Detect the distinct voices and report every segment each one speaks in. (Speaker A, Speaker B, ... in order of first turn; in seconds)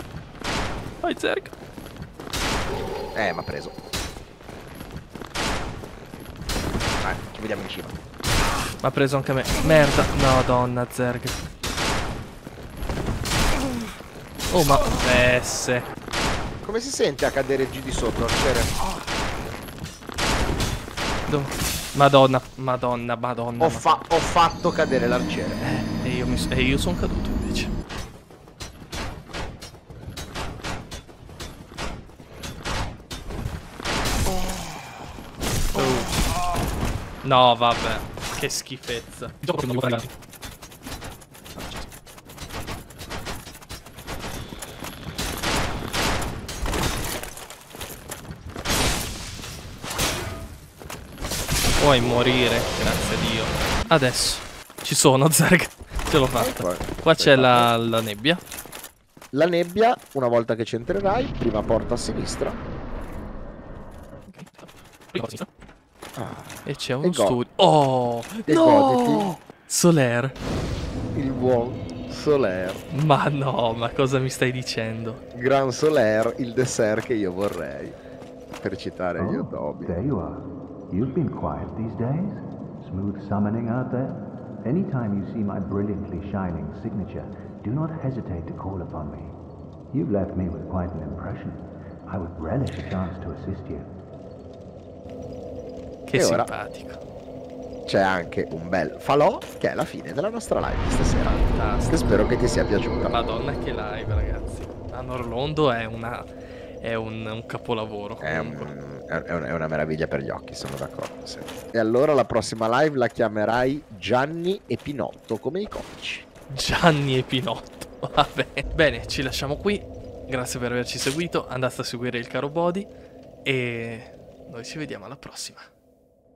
Speaker A: 1.0-1.5, 8.8-11.4, 14.5-15.9, 21.3-24.0, 25.6-27.7, 35.7-36.2, 37.2-40.1, 41.5-41.9, 51.8-58.4, 64.3-65.5, 66.7-70.4, 72.9-75.2, 96.0-97.0, 101.2-108.7, 116.5-122.9, 123.4-125.7
Speaker B: 3.1-3.7, 7.0-8.0, 16.6-18.7, 23.6-25.6, 56.4-57.7, 59.3-62.6, 66.2-67.4, 68.5-69.3, 71.1-72.8, 75.3-78.0, 78.6-79.9, 96.1-96.5, 97.8-101.4, 101.9-103.2, 108.2-116.2
Speaker C: 79.2-89.4, 89.9-94.0